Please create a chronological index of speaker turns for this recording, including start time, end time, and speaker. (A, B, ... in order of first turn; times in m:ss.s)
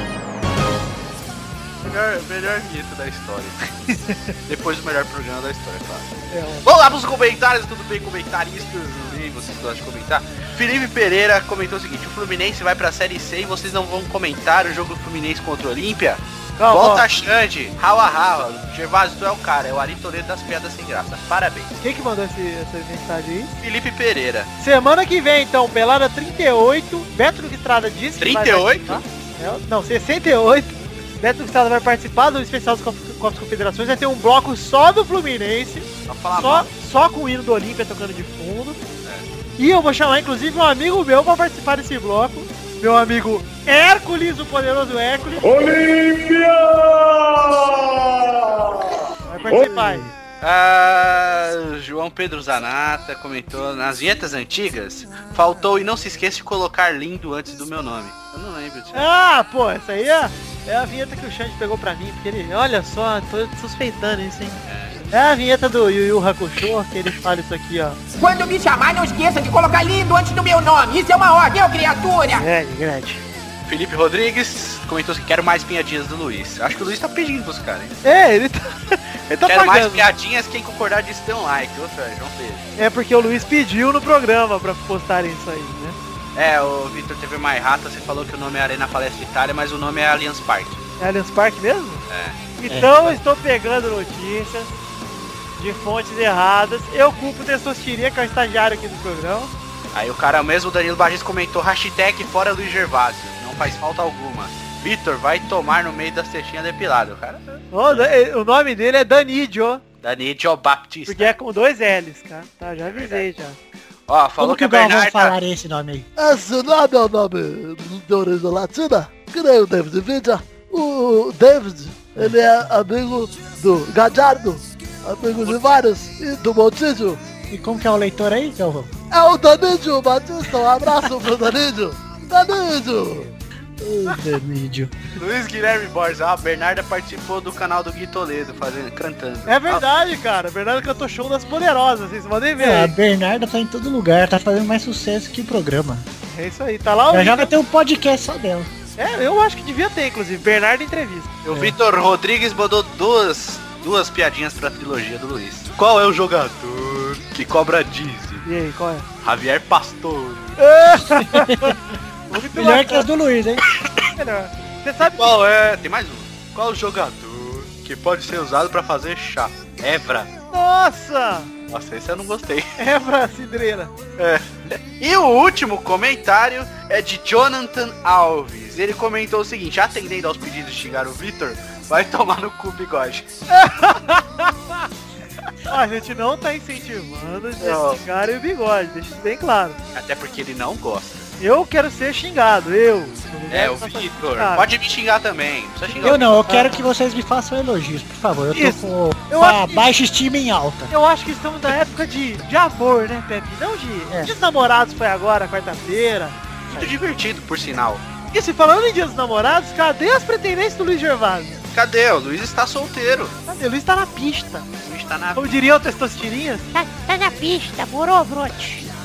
0:01.8-0:03.8 A
0:04.5-0:21.8 A
0:06.3-0:06.7 B
0:16.6-0:17.0 B
0:21.8-0:23.5 B
0:23.6-0:24.5 A
0:24.6-0:38.8 B
0:28.2-0:29.0 A
0:36.1-0:36.7 A
0:39.6-0:45.5 B
0:45.4-0:50.0 C
0:49.3-0:50.1 B
0:50.4-0:59.1 A
0:58.9-1:04.6 B
1:04.7-1:05.0 A
1:05.1-1:08.0 B
1:08.2-1:12.5 D
1:12.3-1:13.2 B
1:13.7-1:18.0 A
1:18.0-1:20.1 B
1:19.5-1:22.6 A
1:22.8-1:26.0 B
1:26.4-1:30.8 A
1:31.0-1:32.0 B
1:32.1-1:32.4 A
1:32.6-1:34.7 B
1:32.7-1:33.2 E
1:35.6-1:39.5 B
1:39.9-1:48.1 A
1:47.7-1:49.8 B
1:50.0-1:51.4 A
1:51.1-1:53.6 B
1:52.8-1:53.3 A
1:54.1-1:55.4 A
1:54.4-1:56.1 E
1:56.2-2:07.2 F
2:07.5-2:08.9 E
2:09.1-2:13.3 F
2:13.8-2:15.0 E
2:15.2-2:19.8 A
2:19.5-2:22.9 B
2:22.6-2:26.0 E
2:26.3-2:27.5 B
2:27.1-2:28.7 E
2:29.0-2:31.4 B
2:31.4-2:38.4 A
2:38.4-2:39.1 B
2:39.2-2:40.6 A
2:40.6-2:41.8 B
2:41.1-2:42.0 E
2:42.3-2:43.1 B
2:42.5-2:43.6 E
2:44.1-2:45.4 B
2:45.0-2:50.3 A
2:50.5-2:51.5 B
2:51.7-2:52.7 A
2:52.8-2:53.9 B
2:54.2-3:03.3 A
3:03.5-3:04.8 B
3:05.7-3:09.8 B
3:07.6-3:08.0 A
3:09.9-3:11.3 A
3:11.4-3:14.7 B
3:13.5-3:16.4 A
3:15.9-3:16.9 B
3:16.0-3:20.9 E
3:18.5-3:19.9 B
3:20.9-3:26.4 B
3:26.7-3:27.0 E
3:26.7-3:28.0 A
3:28.3-3:31.6 B
3:31.7-3:33.4 A
3:33.5-3:34.7 B
3:34.8-3:35.6 A
3:35.4-3:36.7 B
3:36.7-3:38.9 G